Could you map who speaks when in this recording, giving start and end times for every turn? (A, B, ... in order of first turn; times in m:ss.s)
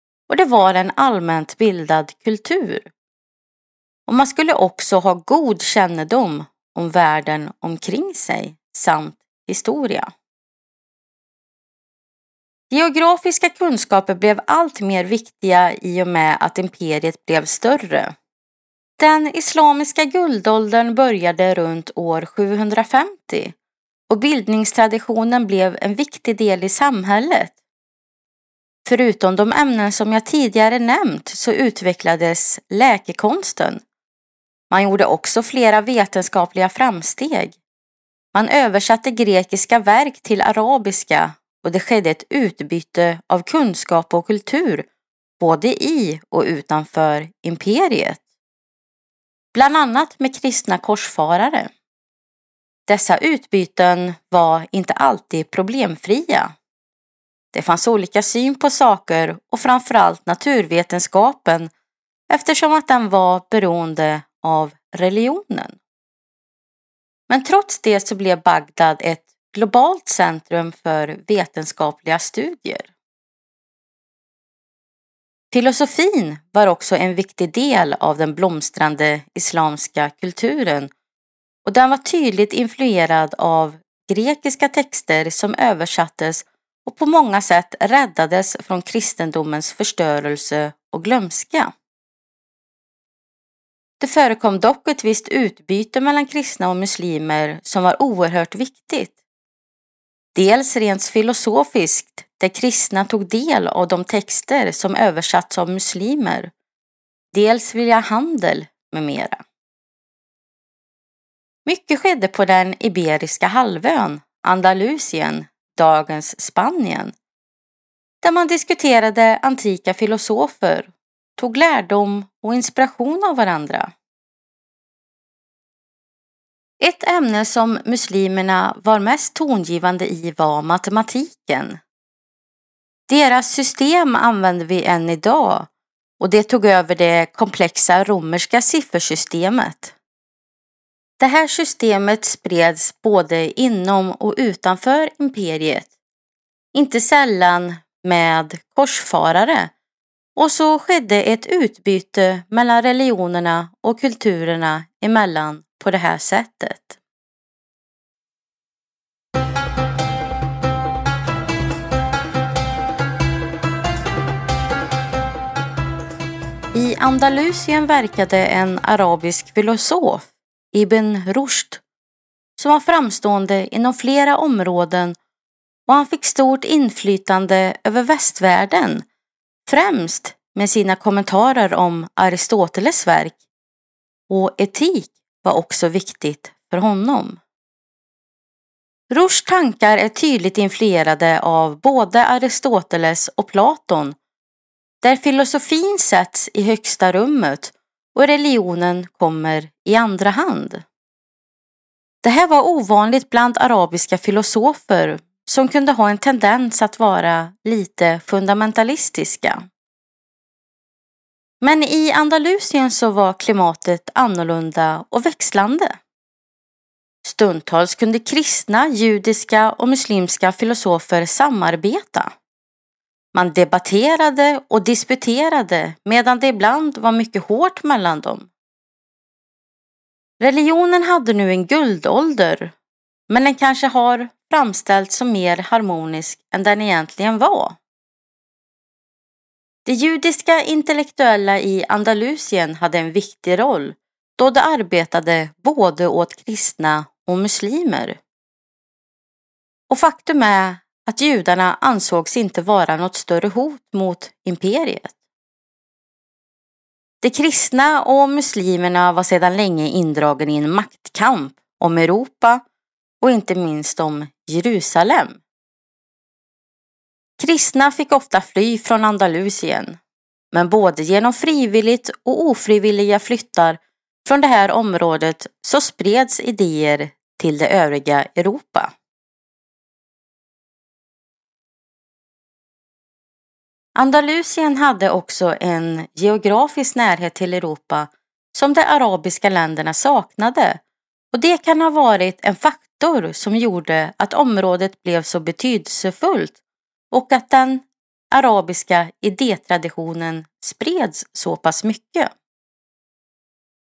0:00.3-0:02.9 A
0:04.1-0:10.1 A
0:12.7-0:18.1 A
0:19.0-0:23.6 A
0:24.1-0:27.6 A
0:28.9-0:33.8 A
0:34.7-0:37.6 A
0:38.3-0:44.9 A
0:45.4-0:48.2 A
0:49.5-0:51.7 A
0:52.9-0:56.6 A
0:57.5-1:01.7 A
1:02.3-1:05.8 A
1:07.3-1:12.9 A
1:15.5-1:20.9 A
1:21.6-1:31.7 A
1:34.0-1:39.2 A
1:40.4-1:46.5 A
1:47.3-1:49.4 A
1:51.7-1:57.1 A
1:58.2-2:03.9 A
2:06.8-2:11.8 A
2:13.1-2:20.0 A
2:21.2-2:25.9 A
2:26.7-2:29.7 A
2:30.4-2:37.0 A
2:46.7-2:51.8 A
2:52.6-2:55.2 A
2:55.9-2:59.1 A
2:59.7-3:03.4 A
3:04.3-3:07.4 A
3:09.1-3:14.2 A
3:15.0-3:20.8 A
3:22.2-3:29.7 A
3:31.6-3:36.0 A
3:37.2-3:42.3 A
3:43.3-3:48.5 A
3:50.4-3:52.7 A
3:53.3-3:57.8 A
3:59.9-4:08.2 A
4:09.9-4:15.2 A
4:17.2-4:22.6 A
4:23.2-4:25.4 A
4:27.4-4:30.0 A
4:30.5-4:38.9 A
4:44.0-4:50.8 A
4:51.3-4:56.6 A
4:57.1-5:02.3 A